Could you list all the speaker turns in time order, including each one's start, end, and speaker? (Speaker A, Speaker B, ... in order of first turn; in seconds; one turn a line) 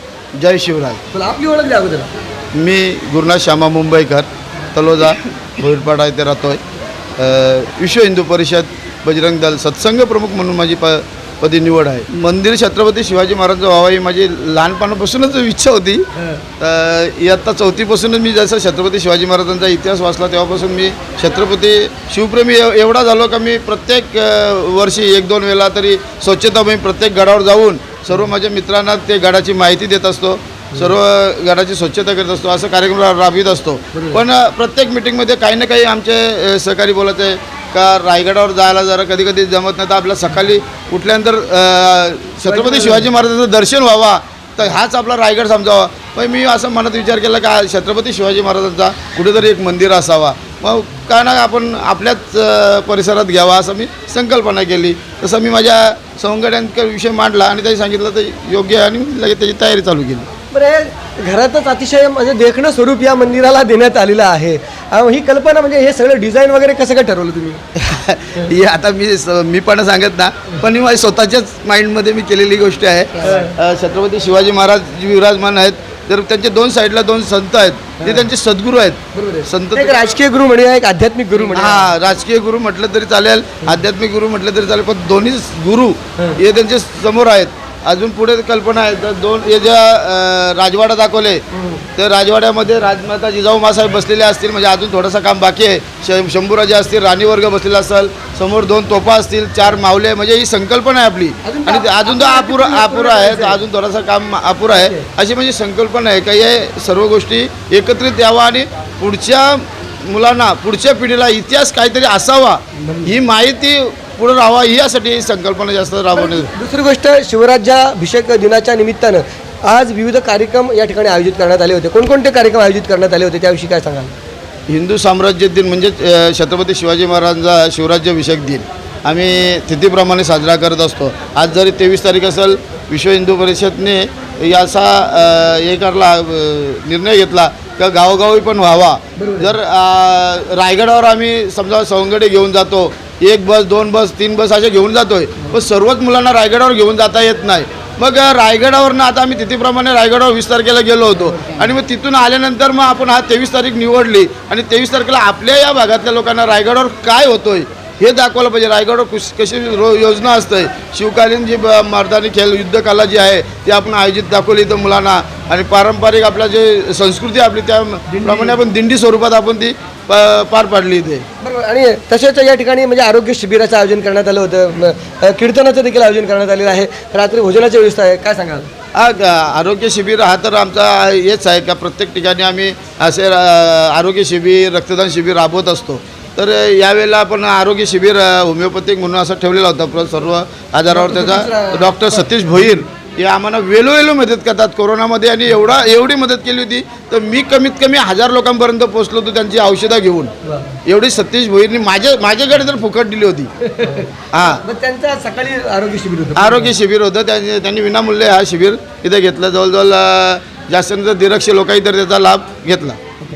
Speaker A: 0.3-1.0
Speaker B: 1.1-2.1
Speaker A: 2.5-6.6
Speaker A: 7.2-16.1
Speaker A: 16.6-60.3
Speaker B: 33.9-34.2
Speaker B: 42.5-43.1
Speaker B: 60.5-67.6
Speaker A: 67.7-80.0
Speaker B: 73.2-73.5
Speaker B: 78.0-78.3
Speaker B: 79.1-81.9
Speaker A: 81.5-91.4
Speaker B: 91.5-91.8
Speaker A: 92.0-116.5
Speaker B: 101.4-103.6
Speaker B: 104.7-105.0
Speaker B: 116.1-124.1
Speaker A: 124.7-171.2
Speaker B: 139.2-139.5
Speaker B: 168.1-168.6
Speaker B: 171.4-178.7
Speaker A: 178.9-200.3
Speaker B: 190.9-192.3
Speaker B: 200.4-200.8
Speaker A: 200.8-203.5
Speaker B: 203.6-206.7
Speaker A: 204.3-204.6
Speaker A: 206.3-213.0